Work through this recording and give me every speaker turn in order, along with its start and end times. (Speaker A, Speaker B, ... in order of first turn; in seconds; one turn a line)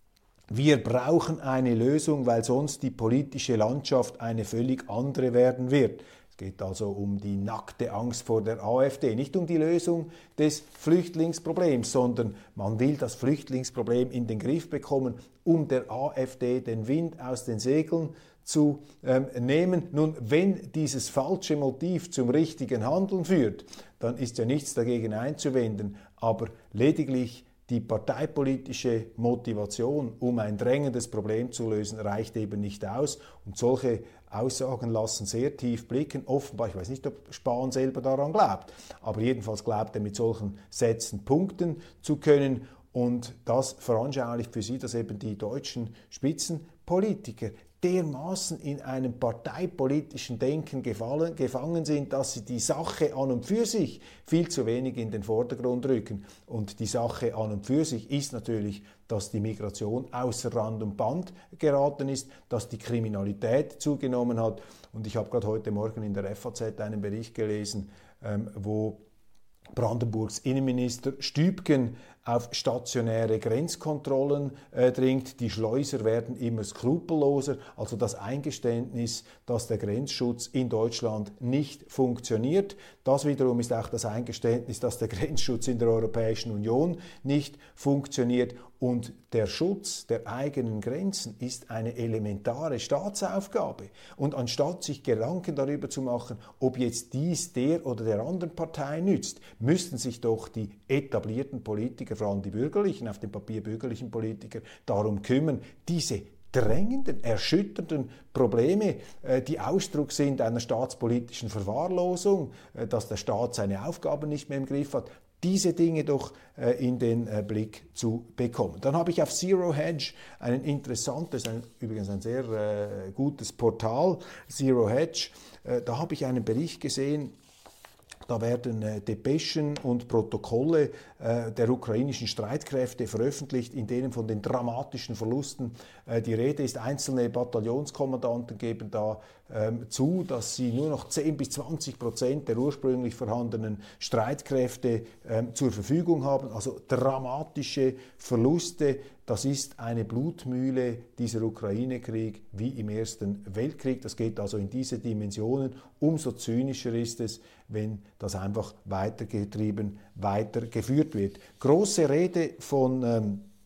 Speaker A: 0.5-69.0
Speaker A: 69.7-127.3
Speaker A: 128.3-163.5